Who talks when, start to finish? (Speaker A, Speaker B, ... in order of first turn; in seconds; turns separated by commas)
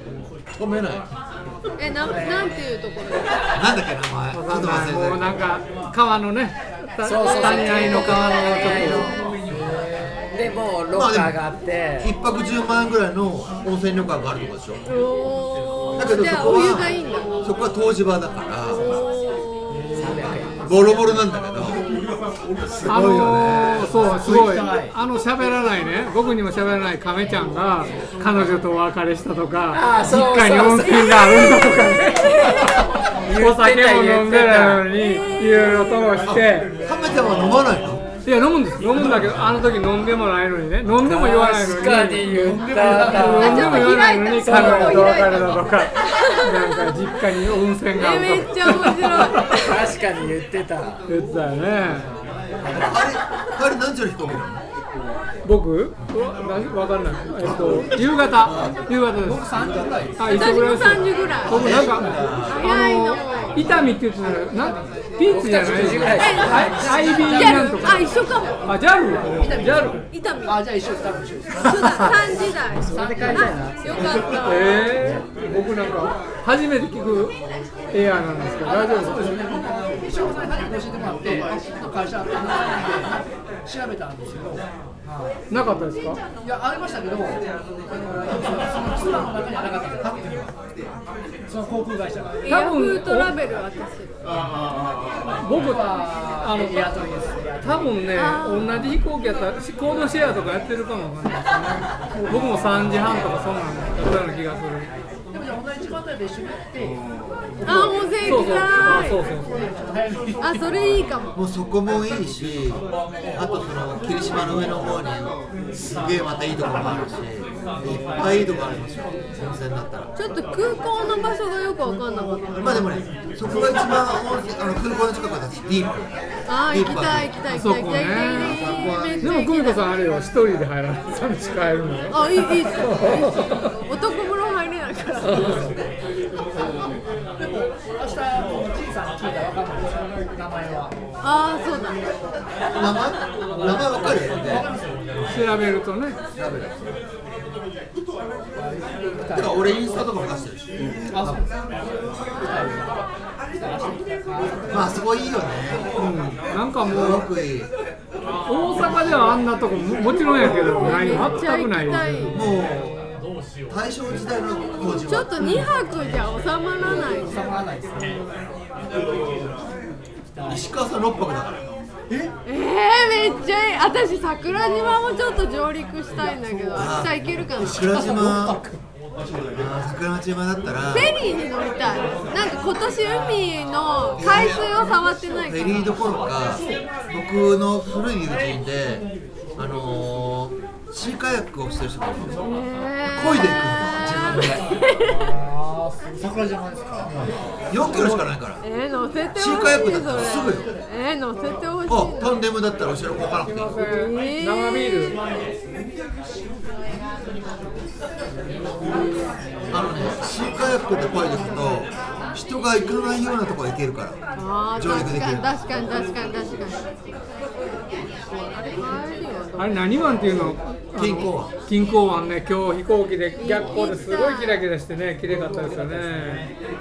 Speaker A: 0.5-1.1, Speaker B: 1.8-3.3, Speaker C: 2.0-2.5, Speaker A: 3.5-5.4, Speaker D: 4.3-9.1, Speaker E: 7.0-12.2, Speaker B: 7.1-9.3, Speaker C: 9.1-10.2, Speaker A: 10.9-11.4, Speaker A: 12.0-14.8, Speaker B: 14.9-17.5, Speaker A: 16.0-18.8, Speaker B: 18.7-19.9, Speaker C: 19.7-21.0, Speaker E: 19.9-20.6, Speaker A: 20.6-21.8, Speaker A: 22.7-24.0, Speaker D: 22.9-36.7, Speaker C: 23.7-25.0, Speaker E: 29.7-35.0, Speaker B: 31.3-32.9, Speaker B: 35.2-35.9, Speaker A: 36.2-38.1, Speaker D: 38.3-49.5, Speaker E: 40.9-45.6, Speaker C: 42.4-43.6, Speaker B: 43.4-47.2, Speaker B: 47.9-50.0, Speaker E: 49.5-51.1, Speaker D: 51.1-52.1, Speaker C: 52.6-52.9, Speaker A: 52.7-54.6, Speaker D: 55.4-68.1, Speaker A: 57.4-58.9, Speaker C: 59.1-60.8, Speaker B: 60.2-63.6, Speaker A: 61.5-62.7, Speaker C: 63.5-65.1, Speaker E: 65.3-67.2, Speaker C: 65.6-68.2, Speaker B: 66.2-68.7, Speaker D: 68.7-70.0, Speaker C: 69.3-72.1, Speaker B: 70.1-70.6, Speaker B: 71.6-74.8, Speaker E: 72.7-74.1, Speaker C: 72.8-74.7, Speaker D: 74.5-77.4, Speaker D: 77.9-79.4, Speaker C: 78.6-85.4, Speaker D: 85.5-86.2, Speaker C: 86.4-87.5, Speaker C: 88.0-90.6, Speaker C: 91.5-92.5, Speaker B: 92.4-94.1, Speaker D: 92.5-93.3, Speaker C: 95.4-98.0, Speaker D: 95.4-97.0, Speaker D: 97.6-104.9, Speaker B: 98.1-98.8, Speaker C: 102.1-103.3, Speaker C: 105.3-107.0, Speaker B: 107.7-109.2, Speaker C: 107.7-110.8, Speaker D: 107.7-109.5, Speaker B: 110.4-111.3, Speaker A: 111.3-120.1, Speaker B: 120.2-123.0, Speaker A: 122.5-126.2, Speaker B: 126.5-129.8, Speaker A: 126.7-127.3, Speaker D: 127.5-128.6, Speaker A: 128.3-129.4, Speaker D: 129.2-133.7, Speaker B: 132.1-135.7, Speaker C: 135.2-135.8, Speaker D: 135.2-135.6, Speaker C: 136.6-136.8, Speaker C: 137.4-141.0, Speaker B: 141.2-142.1, Speaker A: 142.7-144.7, Speaker C: 143.5-145.6, Speaker D: 145.3-146.2, Speaker A: 146.3-146.9, Speaker C: 148.6-149.6, Speaker A: 149.3-151.4, Speaker C: 151.1-153.0, Speaker C: 153.5-155.1, Speaker A: 154.7-155.9, Speaker D: 156.0-157.3, Speaker A: 156.8-157.7, Speaker D: 158.5-162.3, Speaker B: 160.4-162.4, Speaker C: 161.8-163.2, Speaker A: 162.3-162.9, Speaker A: 163.7-165.7, Speaker B: 164.8-167.5, Speaker C: 166.8-168.3, Speaker C: 170.3-170.7, Speaker A: 170.5-171.7, Speaker C: 172.1-172.3, Speaker B: 172.5-178.2, Speaker A: 176.7-178.6, Speaker C: 177.8-178.8, Speaker A: 179.5-181.1, Speaker B: 180.9-185.9, Speaker A: 184.2-184.7, Speaker A: 185.4-192.5, Speaker B: 192.4-195.3, Speaker A: 193.0-194.7, Speaker C: 195.1-198.3, Speaker A: 197.2-198.6, Speaker B: 198.6-202.3, Speaker A: 199.3-200.7, Speaker A: 201.9-203.7, Speaker D: 203.4-205.2, Speaker B: 203.8-205.2, Speaker C: 208.5-210.0, Speaker A: 209.7-214.2, Speaker B: 214.4-216.8, Speaker A: 214.8-215.5, Speaker B: 218.6-220.2, Speaker D: 219.6-226.5, Speaker A: 220.9-221.5, Speaker B: 223.4-224.6, Speaker C: 225.3-226.5